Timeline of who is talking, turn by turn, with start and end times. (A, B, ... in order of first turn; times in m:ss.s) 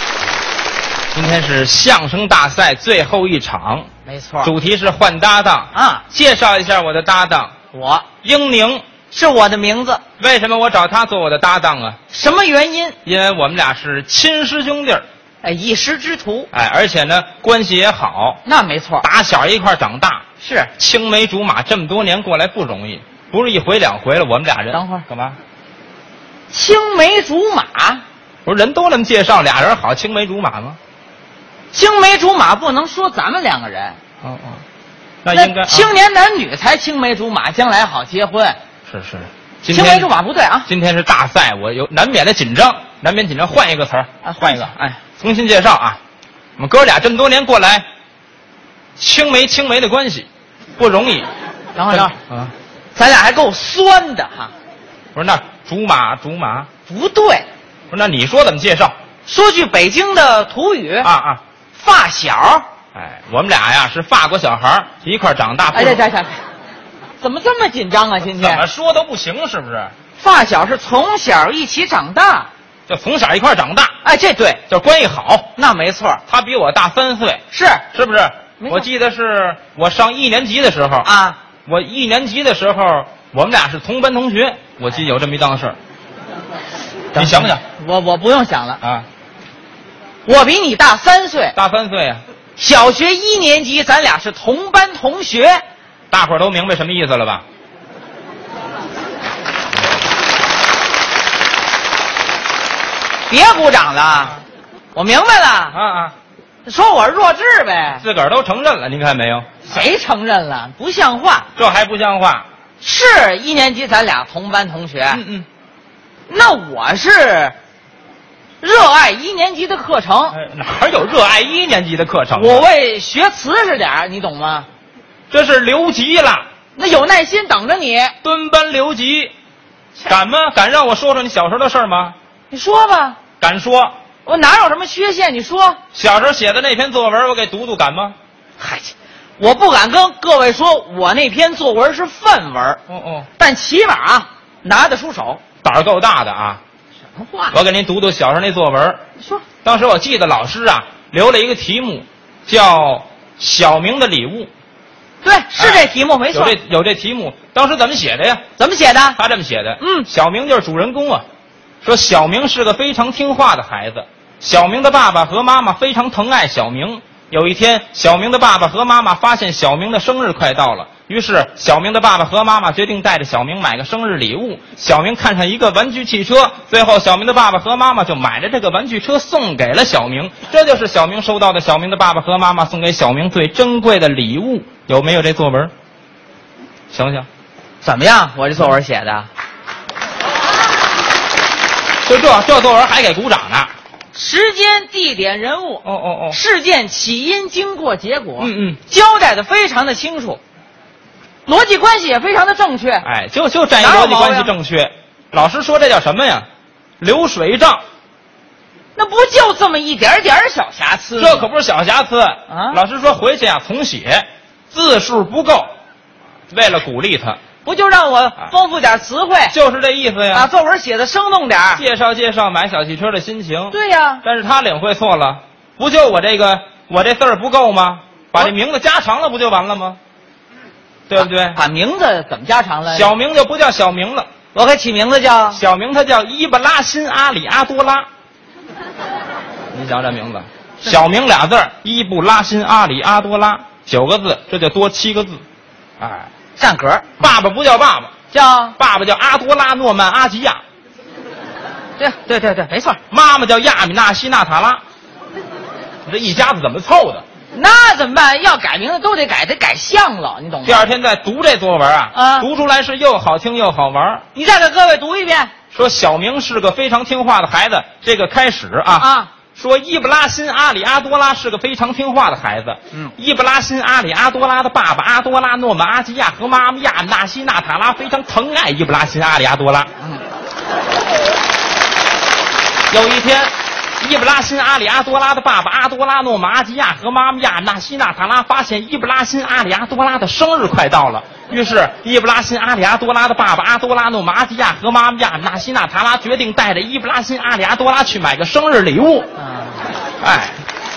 0:01.1-0:03.9 A
0:04.0-0:04.5 B
0:04.4-0:07.5 A
0:05.7-0:06.0 B
0:07.7-0:08.1 B
0:08.2-0:08.8 A
0:09.1-0:10.0 B
0:10.2-0:12.0 A
0:12.1-0:13.0 B
0:13.0-0:15.0 A
0:15.4-0:16.5 B
0:16.5-0:18.4 A
0:18.4-0:19.0 B
0:19.0-0:20.2 A
0:20.4-0:20.7 B
0:20.8-0:25.4 A
0:24.7-0:25.0 B
0:26.5-0:28.0 B
0:28.4-0:30.8 A
0:31.7-0:34.0 B
0:34.2-0:34.6 A
0:35.2-0:35.9 A
0:35.3-0:38.6 B
0:38.9-0:40.1 A
0:39.7-0:40.7 B
0:40.6-0:46.0 A
0:44.2-0:44.9 B
0:46.6-0:47.8 A
0:49.0-0:51.3 A
0:51.7-0:52.1 B
0:51.9-0:52.5 A
0:52.9-0:54.5 B
0:55.1-0:56.7 A
0:56.9-0:57.5 B
0:57.9-0:58.9 A
0:59.2-1:01.1 B
1:01.0-1:01.4 A
1:01.7-1:02.6 B
1:02.9-1:06.0 A
1:05.7-1:06.4 B
1:07.2-1:08.6 B
1:08.3-1:09.9 A
1:10.2-1:12.5 B
1:12.9-1:13.9 A
1:14.0-1:14.6 B
1:14.7-1:15.5 A
1:15.6-1:16.2 B
1:16.3-1:21.1 A
1:17.5-1:17.8 B
1:18.6-1:18.9 B
1:21.0-1:21.4 B
1:21.6-1:25.8 A
1:27.1-1:28.8 B
1:27.1-1:27.6 A
1:28.8-1:29.1 A
1:30.2-1:31.5 B
1:31.5-1:32.2 A
1:32.6-1:35.6 B
1:36.1-1:37.4 A
1:43.3-1:44.4 B
1:44.9-1:45.8 B
1:45.7-1:46.2 A
1:46.6-1:48.0 B
1:47.9-1:49.9 A
1:49.6-1:51.5 B
1:51.5-1:52.5 A
1:52.8-1:55.2 B
1:55.1-1:55.5 A
1:56.3-1:57.5 B
1:58.6-2:00.4 B
2:00.3-2:02.7 A
2:02.3-2:04.7 B
2:05.3-2:06.4 A
2:06.7-2:08.1 B
2:08.2-2:09.3 A
2:10.0-2:12.2 A
2:12.5-2:13.2 B
2:13.4-2:13.9 A
2:14.2-2:15.8 B
2:15.9-2:18.2 A
2:18.6-2:22.8 B
2:22.9-2:23.3 A
2:23.4-2:25.4 B
2:25.6-2:26.6 A
2:27.1-2:27.6 B
2:27.5-2:29.0 A
2:29.6-2:34.5 A
2:35.2-2:36.5 B
2:35.6-2:38.5 A
2:38.6-2:39.2 B
2:39.1-2:41.2 A
2:39.8-2:40.1 B
2:41.8-3:05.7 A
3:06.9-3:07.3 A
3:07.8-3:09.3 B
3:12.0-3:13.7 A
3:14.1-3:20.4 B
3:15.8-3:16.4 A
3:18.4-3:18.8 A
3:21.4-3:23.0 B
3:23.0-3:26.4 A
3:23.8-3:24.5 B
3:27.0-3:27.8 A
3:28.9-3:31.5 B
3:31.2-3:35.7 A
3:32.5-3:32.8 B
3:36.5-3:37.4 A
3:37.6-3:39.5 B
3:39.5-3:40.5 A
3:40.3-3:41.8 B
3:41.7-3:50.0 A
3:43.7-3:44.2 B
3:51.1-3:51.6 A
3:51.1-3:53.1 B
3:52.9-3:54.3 A
3:54.5-3:55.6 B
3:55.5-3:58.1 A
3:59.7-4:05.4 A
4:06.0-4:06.3 A
4:06.6-4:07.1 B
4:07.2-4:08.1 A
4:08.3-4:08.8 B
4:08.8-4:10.6 A
4:12.0-4:13.0 B
4:13.1-4:14.8 A
4:16.0-4:17.2 A
4:17.5-4:20.9 B
4:20.6-4:24.2 A
4:22.1-4:22.5 B
4:24.3-4:25.5 B
4:25.7-4:39.9 A
4:29.0-4:29.3 B
4:42.9-4:59.3 A
4:59.4-4:59.8 B
5:00.2-5:00.6 A